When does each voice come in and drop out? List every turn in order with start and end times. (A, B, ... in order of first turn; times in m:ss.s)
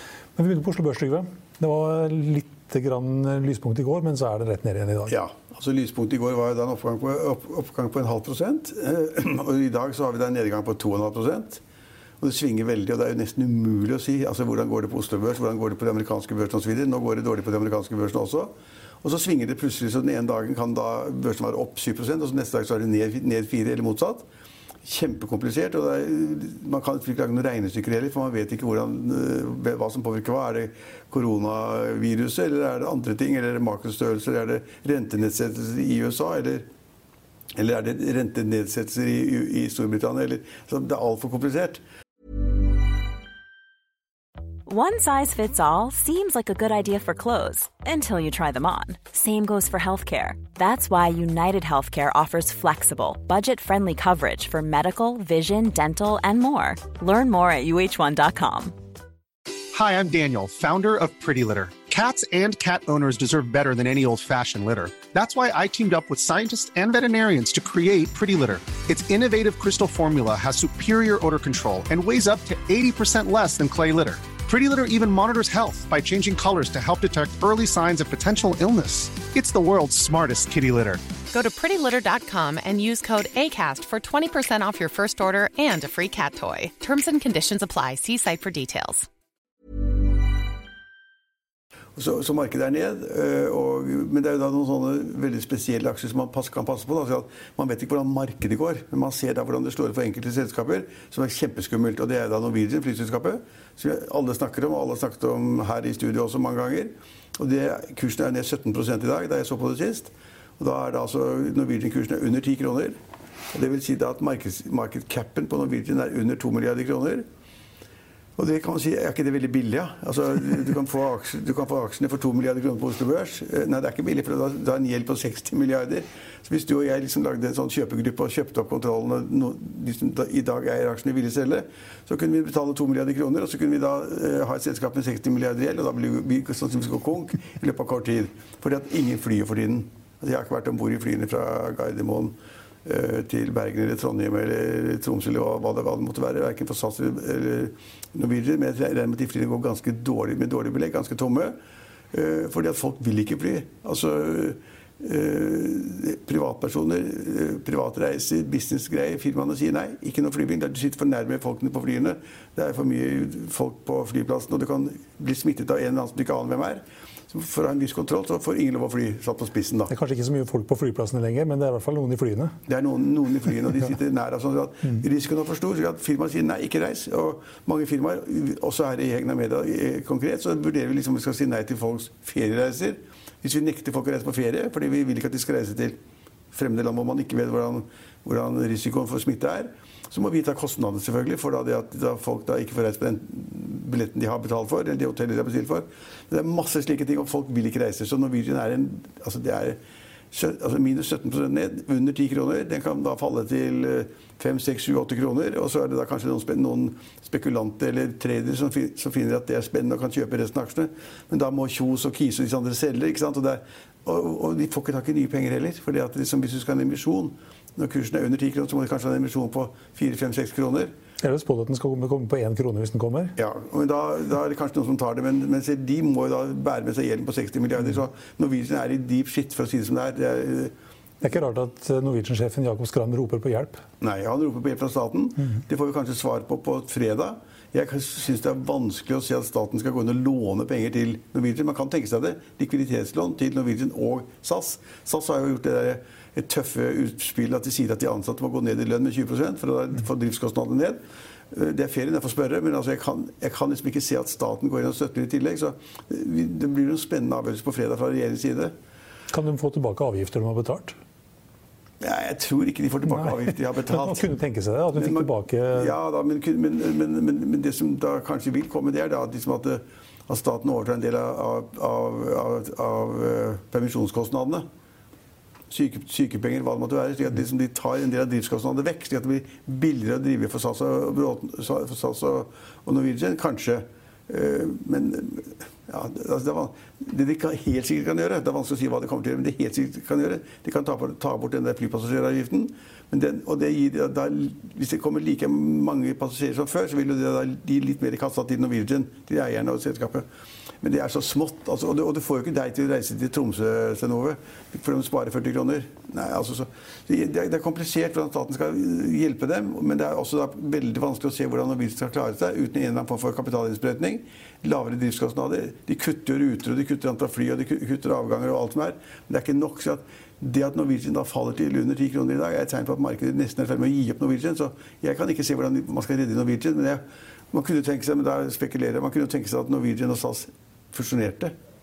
0:00.4-0:05.1 A
0:05.1-0:11.6 B
0:12.2-0:18.5 B
0:19.0-0:24.2 B
0:24.8-0:36.6 B
0:37.6-0:41.8 B
0:44.7-0:58.7 C
0:59.8-1:21.0 D
1:21.3-1:29.1 E
1:32.0-1:53.0 B
1:53.5-1:57.2 B
1:58.4-2:22.3 B
2:22.8-2:31.5 B
2:32.1-2:49.9 B
2:49.9-2:52.6 A
2:52.7-3:06.0 B
3:06.5-3:19.8 B
3:20.3-3:40.9 B
3:41.2-3:43.3 A
3:43.4-3:50.7 B
3:51.2-3:53.8 A
3:54.0-4:11.0 B
4:11.5-4:18.7 B
4:19.3-4:21.0 A
4:22.0-4:24.3 B
4:23.1-4:25.9 A
4:24.9-4:34.6 B
4:35.7-5:00.2 B
5:00.8-5:31.5 B